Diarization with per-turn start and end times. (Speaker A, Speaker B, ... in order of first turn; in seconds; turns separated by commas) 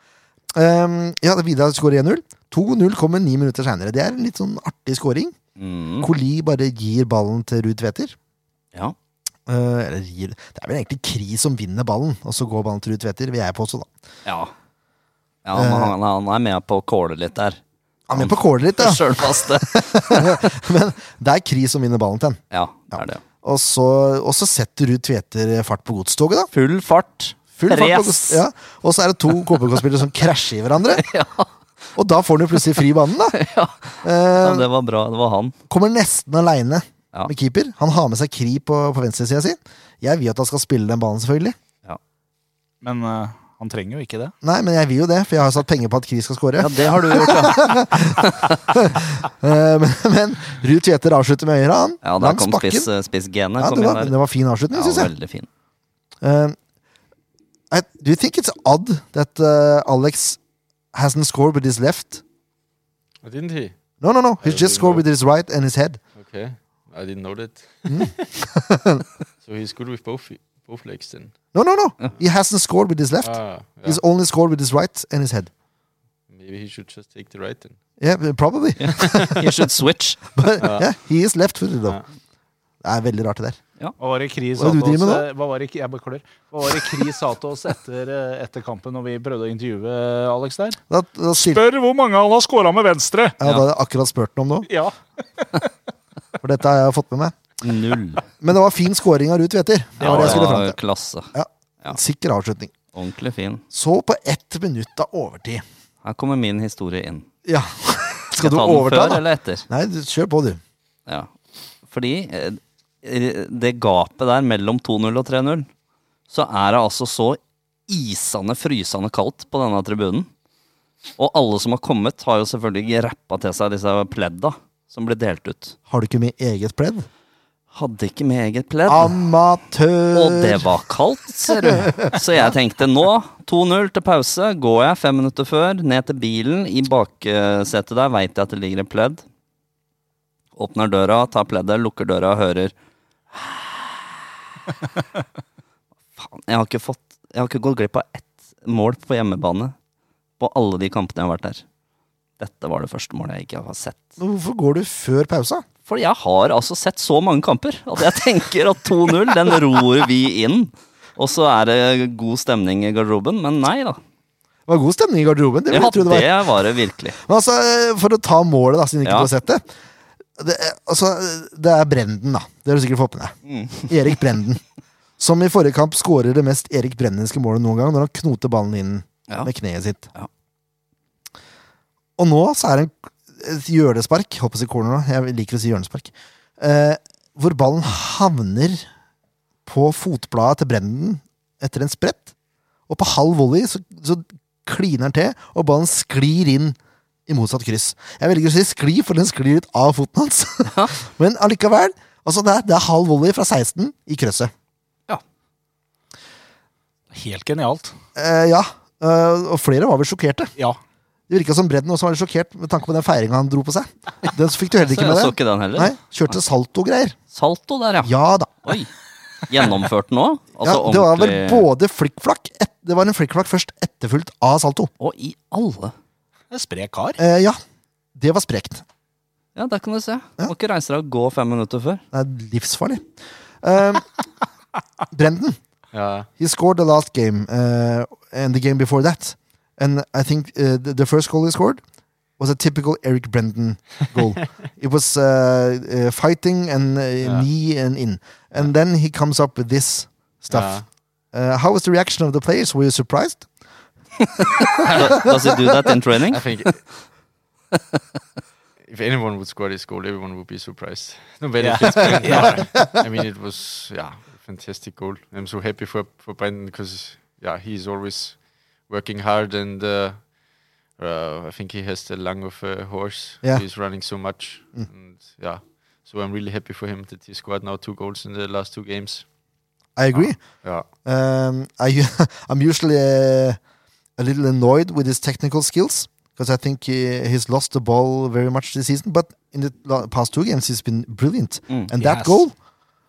Speaker A: 0.5-5.3, Speaker B: 5.5-6.1, Speaker A: 6.0-8.2, Speaker A: 9.5-13.9, Speaker B: 14.2-14.5, Speaker B: 15.4-17.6, Speaker A: 15.5-15.9, Speaker A: 18.1-26.5, Speaker B: 18.1-20.4, Speaker B: 22.5-23.2, Speaker B: 26.5-28.4, Speaker A: 27.6-31.1, Speaker B: 30.9-31.5, Speaker A: 31.9-33.4, Speaker B: 33.3-35.5, Speaker A: 34.0-34.7, Speaker A: 35.7-41.5, Speaker C: 42.8-44.3, Speaker A: 44.4-52.9, Speaker B: 46.6-48.5, Speaker B: 52.0-54.1, Speaker A: 53.6-55.1, Speaker B: 54.7-55.5, Speaker A: 56.2-56.6, Speaker A: 57.7-60.4, Speaker A: 60.9-62.2, Speaker D: 63.2-63.8, Speaker A: 64.0-66.0, Speaker D: 64.4-65.0, Speaker D: 66.1-68.3, Speaker A: 67.9-69.0, Speaker D: 69.4-71.4, Speaker A: 71.5-75.5, Speaker D: 73.2-74.0, Speaker D: 76.3-77.8, Speaker A: 78.0-79.4, Speaker B: 78.8-80.2, Speaker D: 79.0-79.4, Speaker A: 80.3-82.0, Speaker D: 80.6-80.9, Speaker A: 82.8-83.6, Speaker C: 84.0-90.8, Speaker A: 84.6-85.3, Speaker A: 90.9-91.6, Speaker C: 91.3-93.4, Speaker A: 93.4-94.7, Speaker C: 94.7-95.6, Speaker A: 96.4-97.3, Speaker B: 97.6-98.2, Speaker A: 98.4-100.8, Speaker B: 100.0-102.0, Speaker C: 100.0-100.5, Speaker A: 101.3-102.7, Speaker B: 102.9-103.6, Speaker A: 103.7-105.6, Speaker B: 106.0-107.3, Speaker A: 107.4-110.6, Speaker B: 108.4-109.7, Speaker B: 111.8-115.7, Speaker B: 116.3-120.3, Speaker B: 121.2-125.8, Speaker A: 125.9-127.1, Speaker B: 127.7-129.2, Speaker A: 128.9-130.7, Speaker B: 130.1-139.2, Speaker A: 131.5-132.1, Speaker B: 140.5-142.7, Speaker B: 143.3-144.0, Speaker B: 146.2-149.7, Speaker B: 150.4-151.6, Speaker B: 152.4-154.2, Speaker A: 154.2-155.6, Speaker B: 155.8-164.0, Speaker A: 164.7-166.4, Speaker B: 165.7-167.2, Speaker A: 167.2-169.7, Speaker B: 169.0-169.3, Speaker A: 170.4-174.6, Speaker B: 173.4-173.9, Speaker A: 175.2-180.1, Speaker A: 182.2-188.9, Speaker A: 189.7-192.3, Speaker A: 192.9-204.5, Speaker B: 200.7-200.9, Speaker C: 207.1-207.9, Speaker A: 208.2-210.5, Speaker A: 211.3-217.2, Speaker B: 214.8-215.9, Speaker B: 217.3-218.1, Speaker A: 218.0-218.7, Speaker B: 218.6-218.9, Speaker B: 219.4-221.7, Speaker A: 220.6-224.9, Speaker B: 225.0-225.9, Speaker C: 226.5-227.2, Speaker A: 227.2-227.6, Speaker A: 228.1-228.8, Speaker B: 229.5-232.0, Speaker A: 232.1-234.1, Speaker A: 235.1-235.6, Speaker D: 235.9-236.3, Speaker A: 236.4-241.8, Speaker A: 242.4-253.5, Speaker D: 247.2-247.5, Speaker D: 250.5-250.8, Speaker B: 254.8-256.6, Speaker D: 256.3-257.0, Speaker D: 258.8-279.3, Speaker C: 261.6-262.7, Speaker A: 262.1-263.0, Speaker A: 279.9-283.6, Speaker D: 280.1-280.9, Speaker A: 284.2-292.6, Speaker C: 292.0-292.4